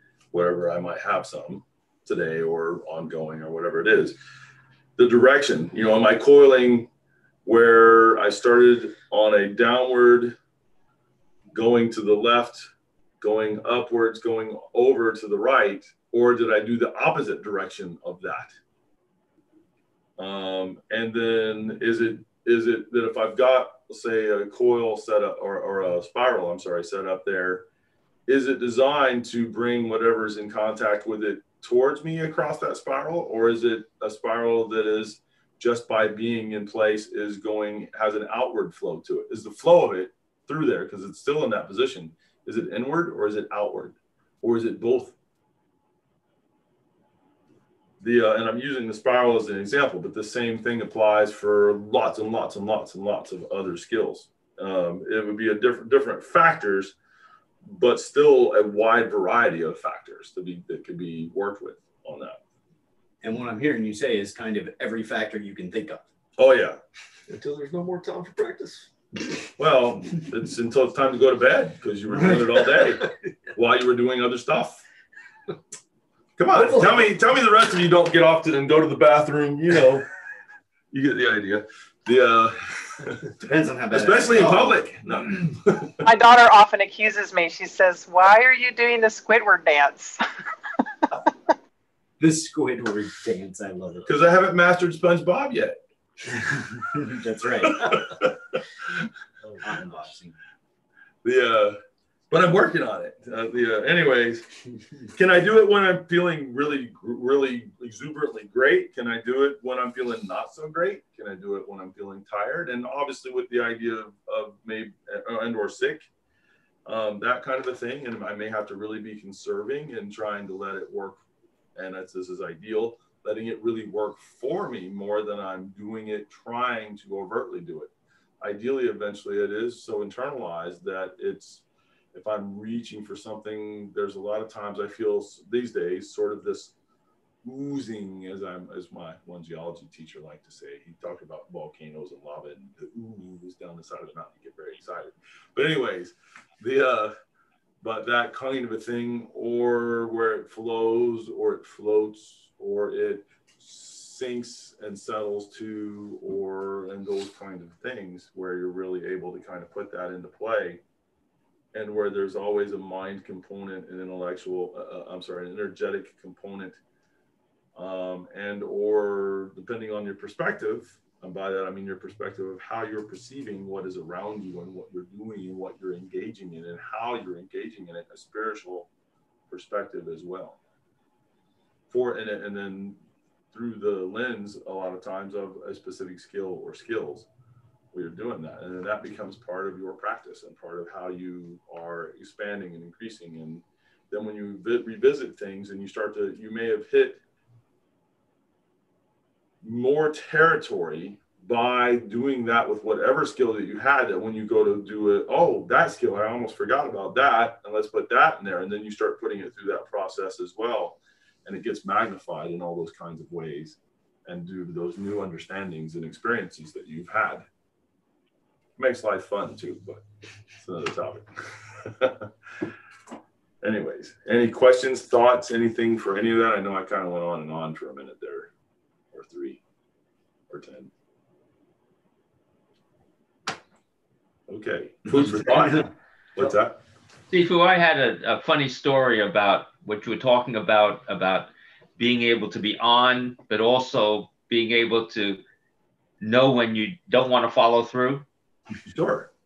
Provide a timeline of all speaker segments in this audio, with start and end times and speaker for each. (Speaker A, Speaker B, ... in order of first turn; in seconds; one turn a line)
Speaker A: 0.3-4.2
Speaker A: 5.0-6.9
Speaker A: 7.4-10.3
Speaker A: 11.5-12.7
Speaker A: 13.2-18.5
Speaker A: 20.2-27.6
Speaker A: 28.3-45.1
Speaker A: 48.0-56.9
Speaker A: 57.6-62.4
Speaker B: 63.2-66.0
Speaker A: 66.4-66.8
Speaker C: 67.3-68.9
Speaker A: 69.6-74.8
Speaker C: 72.6-73.1
Speaker A: 76.4-80.1
Speaker B: 76.5-77.1
Speaker A: 80.9-83.2
Speaker B: 83.4-84.9
Speaker A: 83.9-86.0
Speaker D: 86.0-90.2
Speaker B: 92.2-94.1
Speaker A: 94.0-95.8
Speaker B: 96.3-98.3
Speaker A: 97.6-98.4
Speaker B: 99.6-100.3
Speaker A: 101.2-101.8
Speaker A: 102.3-104.4
Speaker A: 105.1-116.1
Speaker A: 116.8-121.2
Speaker A: 121.7-131.6
Speaker A: 132.1-136.7
Speaker A: 137.4-147.1
Speaker A: 147.8-160.8
Speaker A: 161.7-166.8
Speaker A: 167.7-178.9
Speaker A: 179.5-180.6
Speaker A: 181.9-182.9
Speaker A: 183.5-187.3
Speaker A: 187.9-197.2
Speaker A: 199.6-217.4
Speaker A: 218.8-220.0
Speaker A: 220.6-222.3
Speaker A: 223.6-228.5
Speaker A: 229.1-229.6
Speaker A: 230.5-230.9
Speaker A: 234.5-236.8
Speaker B: 235.1-236.5
Speaker E: 237.3-245.4
Speaker E: 246.2-248.2
Speaker A: 248.9-249.3